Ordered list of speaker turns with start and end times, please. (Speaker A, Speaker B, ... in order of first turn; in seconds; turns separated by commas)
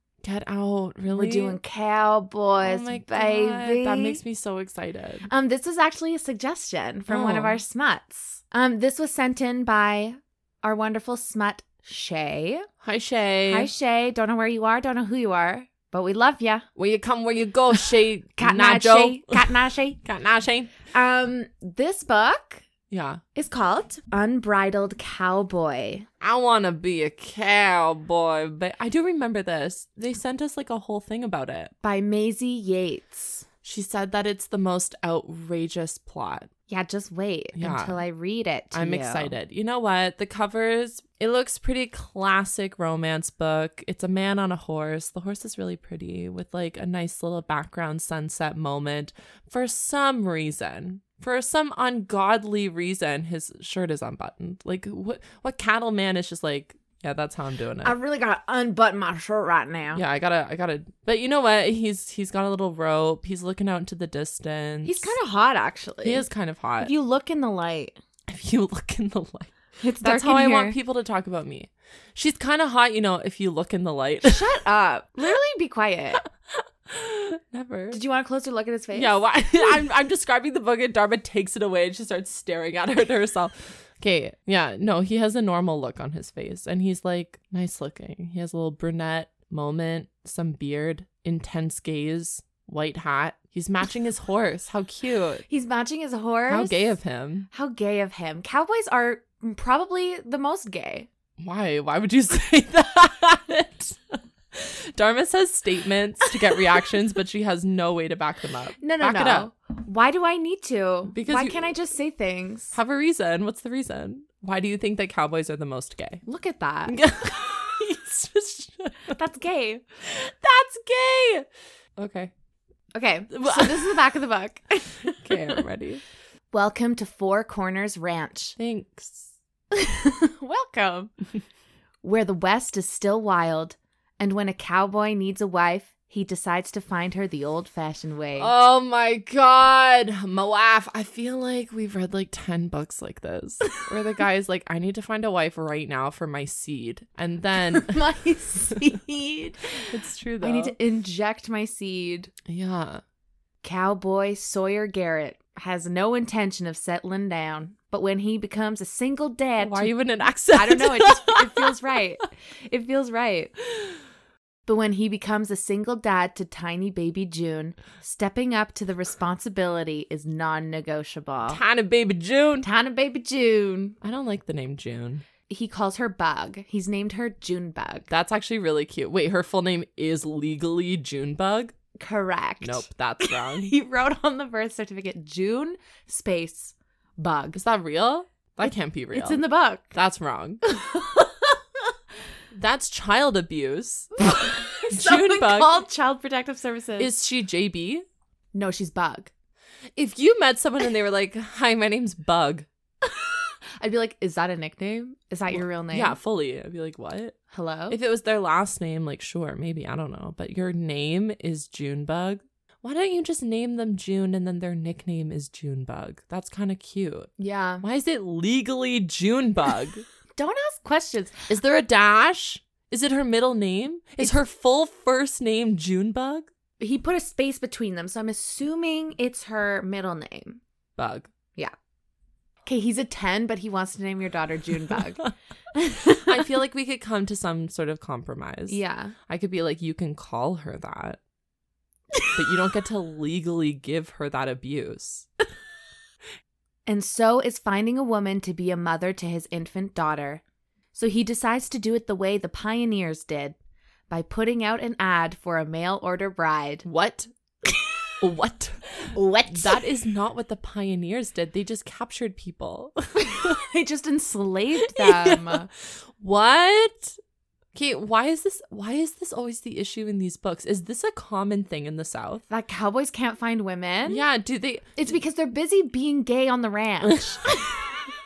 Speaker A: 0.2-1.6, Speaker B: 1.1-4.2, Speaker A: 2.6-5.3, Speaker B: 5.3-12.7, Speaker A: 7.1-7.6, Speaker A: 12.8-13.7, Speaker B: 13.5-16.7, Speaker A: 16.8-20.7, Speaker B: 18.4-20.0, Speaker B: 20.9-22.7, Speaker A: 22.9-23.2, Speaker B: 23.4-26.1, Speaker A: 26.2-31.7, Speaker B: 31.8-33.5, Speaker A: 33.6-36.5, Speaker B: 36.7-39.3, Speaker A: 37.6-38.0, Speaker A: 38.7-58.0, Speaker B: 57.8-60.0, Speaker A: 59.9-65.2, Speaker B: 64.8-66.3, Speaker A: 66.0-66.9, Speaker B: 66.8-68.0, Speaker A: 68.3-74.4, Speaker B: 69.8-70.8, Speaker B: 74.3-76.2, Speaker A: 76.6-78.0, Speaker B: 77.9-79.2, Speaker A: 78.9-95.5, Speaker B: 95.5-97.0, Speaker A: 96.5-97.5, Speaker B: 97.5-101.1, Speaker A: 101.4-109.5, Speaker B: 108.8-112.8, Speaker A: 111.1-111.7, Speaker A: 112.7-116.2, Speaker B: 116.2-117.0, Speaker A: 116.9-119.2, Speaker B: 119.1-119.8, Speaker A: 120.0-122.3, Speaker B: 123.0-125.6, Speaker A: 123.3-124.0, Speaker A: 125.1-126.0, Speaker B: 126.5-128.6, Speaker A: 128.6-129.3, Speaker B: 129.7-131.1, Speaker B: 132.0-138.5, Speaker A: 138.4-148.0, Speaker B: 147.6-152.3, Speaker A: 149.9-150.8, Speaker A: 152.5-153.0, Speaker B: 153.6-159.9, Speaker A: 159.6-161.8, Speaker B: 160.5-163.5, Speaker B: 164.7-171.6, Speaker A: 171.5-172.7, Speaker B: 172.6-174.0, Speaker A: 174.0-175.2, Speaker B: 175.5-178.1, Speaker A: 178.1-181.7, Speaker B: 182.0-187.6, Speaker A: 182.6-183.7, Speaker A: 187.5-189.4, Speaker B: 188.6-189.9, Speaker A: 189.9-190.6, Speaker B: 190.6-191.6, Speaker A: 192.5-195.8, Speaker B: 194.2-197.1, Speaker A: 197.0-198.0, Speaker B: 198.5-199.3, Speaker A: 199.9-202.7, Speaker B: 203.1-206.2, Speaker A: 205.5-207.4, Speaker B: 207.5-208.0, Speaker A: 207.9-217.3, Speaker B: 217.4-217.8, Speaker A: 217.8-220.0, Speaker B: 220.4-221.5, Speaker A: 221.5-226.5, Speaker B: 226.8-230.6, Speaker A: 231.0-231.3, Speaker B: 232.7-236.5, Speaker A: 236.2-241.2, Speaker B: 238.7-239.2, Speaker A: 242.3-245.3, Speaker B: 246.9-250.4, Speaker B: 250.9-253.6, Speaker B: 254.1-256.9, Speaker A: 256.8-257.3, Speaker B: 257.7-258.1, Speaker A: 258.2-263.6, Speaker B: 259.1-259.9, Speaker B: 263.2-265.7, Speaker A: 264.8-265.6, Speaker A: 266.2-267.2, Speaker A: 267.7-272.4, Speaker B: 272.5-274.2, Speaker A: 274.1-275.1, Speaker B: 275.0-277.4, Speaker A: 277.0-277.8